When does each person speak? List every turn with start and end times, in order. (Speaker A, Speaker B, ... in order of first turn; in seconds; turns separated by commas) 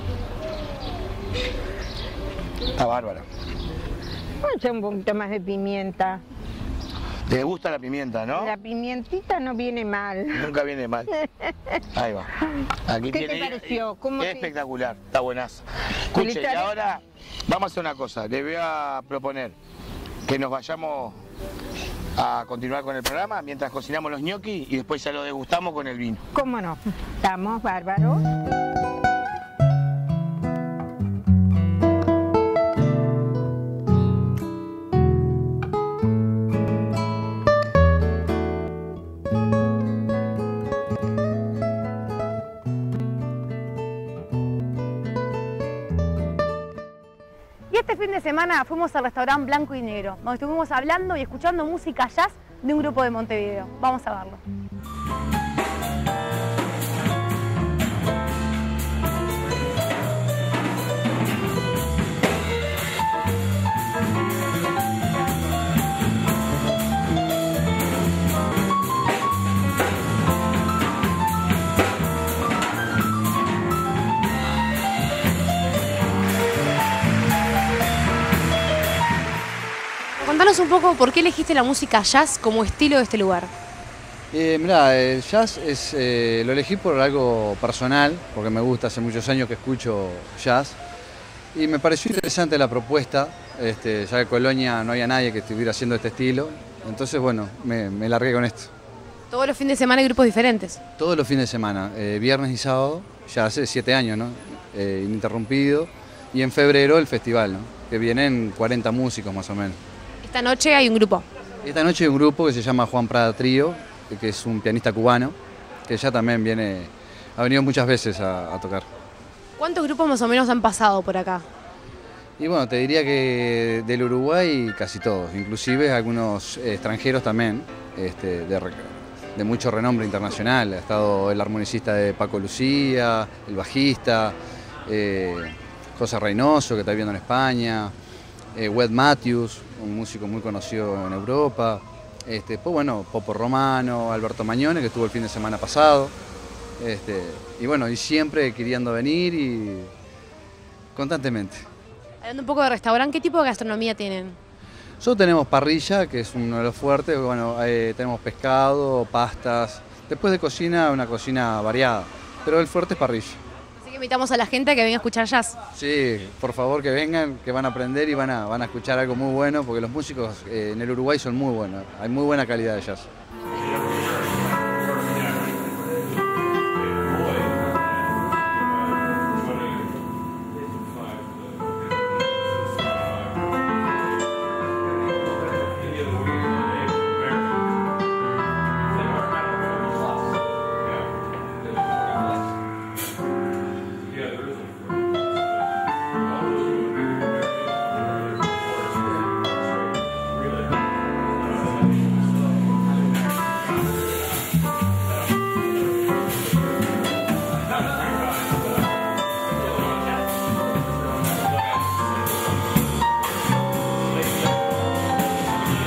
Speaker A: 2.8-3.2, Speaker B: 4.4-6.2, Speaker A: 7.3-8.5, Speaker B: 8.3-10.5, Speaker A: 10.3-11.1, Speaker B: 11.2-11.8, Speaker A: 11.9-12.3, Speaker A: 12.9-19.5, Speaker B: 13.1-14.5, Speaker B: 16.1-16.7, Speaker A: 20.2-21.2, Speaker A: 22.2-26.2, Speaker B: 26.3-28.2, Speaker C: 47.7-54.4, Speaker C: 80.2-83.5, Speaker D: 84.3-90.8, Speaker D: 91.5-98.7, Speaker C: 99.3-100.8, Speaker D: 101.0-109.8, Speaker C: 110.2-111.2, Speaker D: 111.6-115.3, Speaker D: 115.9-118.8, Speaker C: 119.6-121.5, Speaker D: 122.4-137.9, Speaker D: 138.5-146.1, Speaker D: 146.8-149.9, Speaker D: 150.9-151.6, Speaker C: 152.2-154.4, Speaker D: 155.0-163.4, Speaker C: 163.8-165.6, Speaker D: 165.7-173.1